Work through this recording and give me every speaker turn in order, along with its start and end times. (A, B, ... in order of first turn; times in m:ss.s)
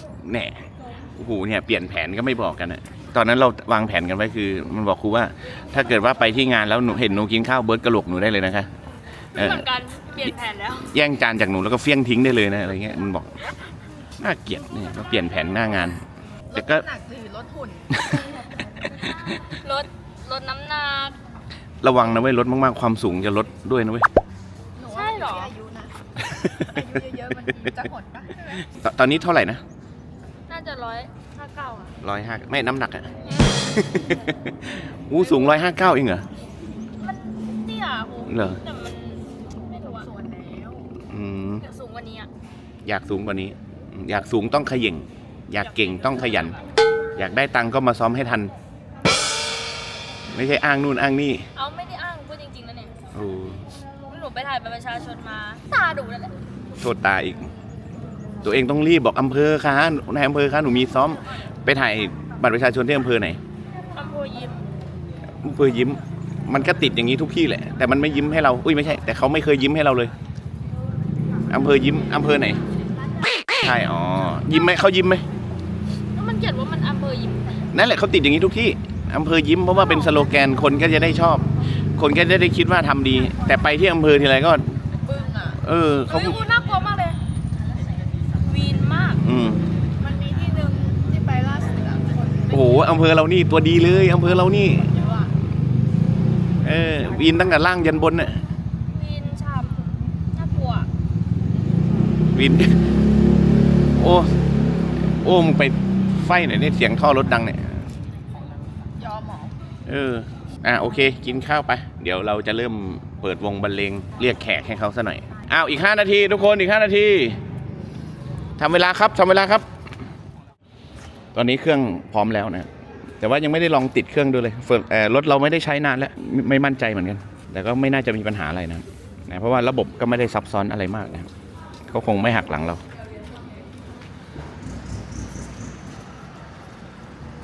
0:00.2-0:08.7 A
0:09.4-0:09.7 A
0:09.4-0:10.9 B
0:10.2-0:13.3 A
0:14.2-0:16.0 A
0:16.5-0:17.9 C
0:16.5-0:16.9 A
0:18.0-0:18.2 A
0:18.8-0:19.3 A
0:19.5-0:21.2 B
0:21.8-0:24.1 A
0:24.8-0:26.0 C
0:24.9-0:25.5 B
0:26.3-0:26.9 A
0:26.6-0:28.6 C
0:28.6-0:29.6 A
0:30.5-0:31.1 B
0:31.4-0:31.9 C
0:32.0-0:33.1 A
0:33.3-0:33.6 B
0:33.6-0:36.3 A
0:37.0-0:40.1 B
0:38.3-0:38.6 A
0:40.0-0:40.9 C
0:41.1-0:41.6 A
0:41.6-0:42.3 B
0:42.8-0:46.6 A
0:45.6-0:46.6 B
0:47.2-0:48.5 A
0:50.3-0:51.5 A
0:51.6-0:52.9 B
0:53.1-0:53.6 A
0:54.1-0:56.4 B
0:56.8-0:57.5 A
0:58.4-1:03.4 A
1:04.0-1:04.6 B
1:05.4-1:10.1 A
1:11.5-1:12.6 A
1:13.5-1:15.2 A
1:16.1-1:17.6 B
1:17.7-1:21.5 A
1:22.0-1:24.8 A
1:25.0-1:25.6 C
1:25.6-1:26.4 A
1:26.1-1:27.2 B
1:28.4-1:29.2 B
1:29.2-1:29.6 A
1:30.0-1:32.9 C
1:32.5-1:35.0 A
1:36.6-1:38.4 A
1:38.9-1:40.9 B
1:42.3-1:42.7 A
1:44.0-1:44.3 A
1:45.1-1:47.8 A
1:49.0-1:49.5 C
1:49.9-1:57.4 A
1:58.6-1:59.6 A
2:01.3-2:02.7 A
2:03.2-2:11.3 A
2:11.9-2:12.8 A